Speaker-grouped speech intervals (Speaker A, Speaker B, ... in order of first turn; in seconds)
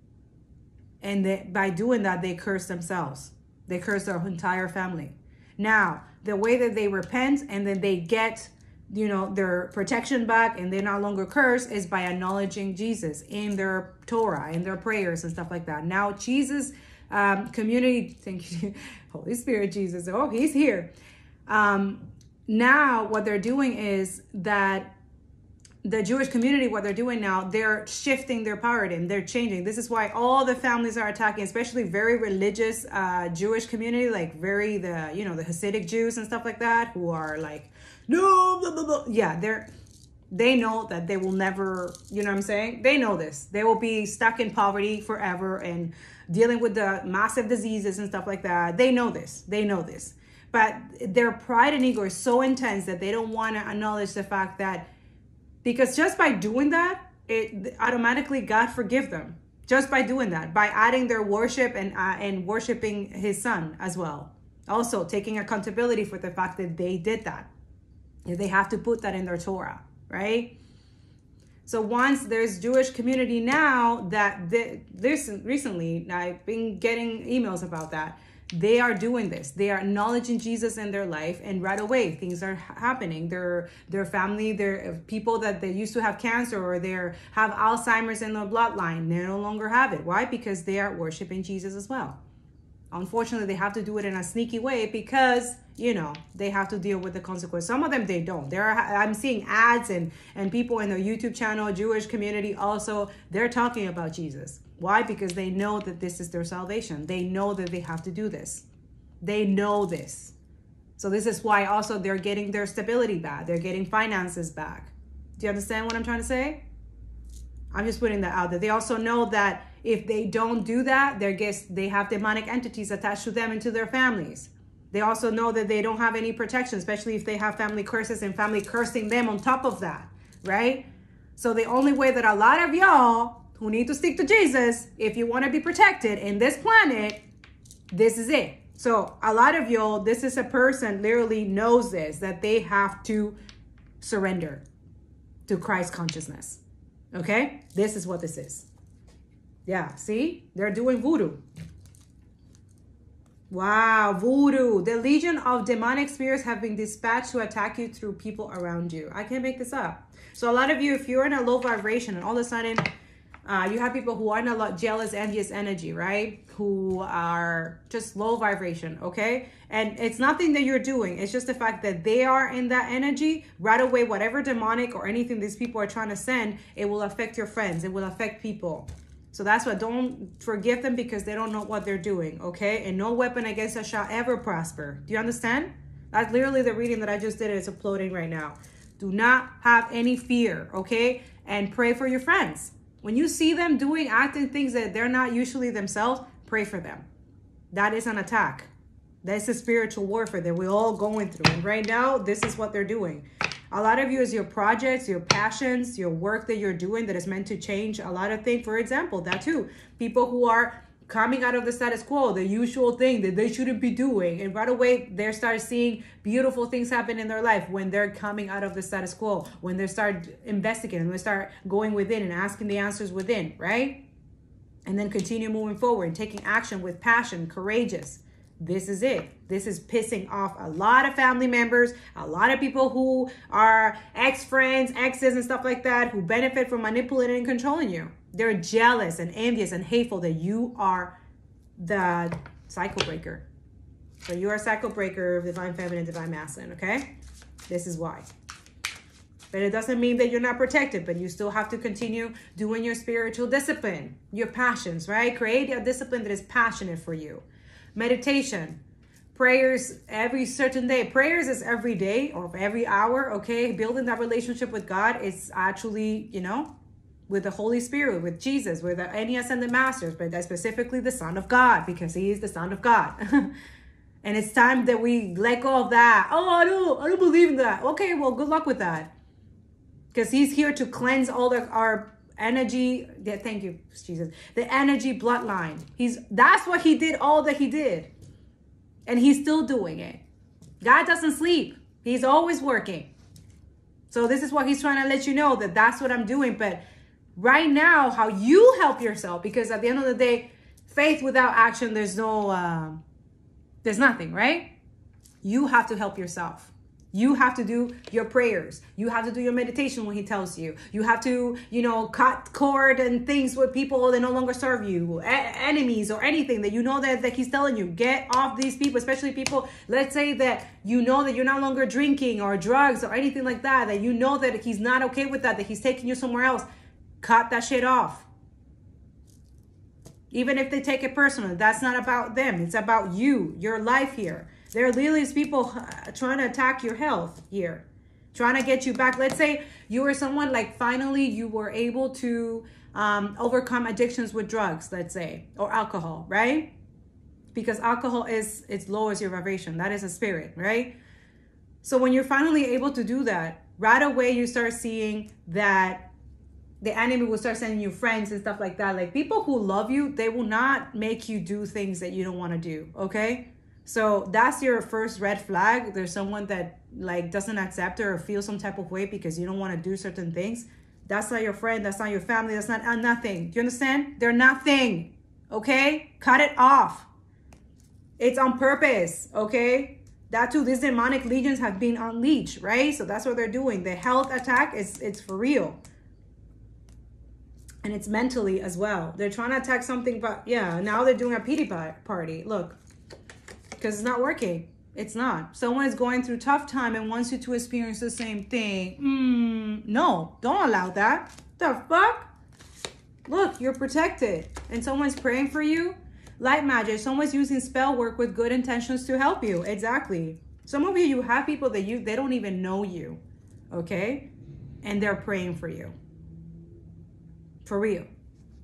Speaker A: 1.0-20.9, 21.5-24.9, 25.8-39.7, 40.3-54.9, 55.6-67.5, 68.2-70.6, 71.7-92.2, 92.9-108.7, 109.2-110.3, 111.0-116.6, 117.7-130.8, 131.4-137.2, 137.9-143.4, 144.0-144.7, 145.5-146.6, 147.1-148.7, 149.7-151.4, 153.5-162.9, 163.4-197.1, 197.7-198.7, 199.2-224.0, 224.8-241.2, 241.8-243.4, 244.2-247.1, 247.7-248.3, 249.5-258.8, 259.3-266.7, 267.3-273.5, 274.2-279.1, 280.1-288.1, 289.1-290.2, 290.8-293.1, 294.1-296.8, 297.4-303.0, 303.8-304.7, 305.4-326.6, 327.2-328.3, 330.3-346.7, 347.5-350.9, 351.8-356.1, 356.8-377.1, 378.2-385.8, 387.8-392.8, 393.8-402.3, 403.3-413.2, 413.7-414.3, 414.8-415.9, 417.6-418.1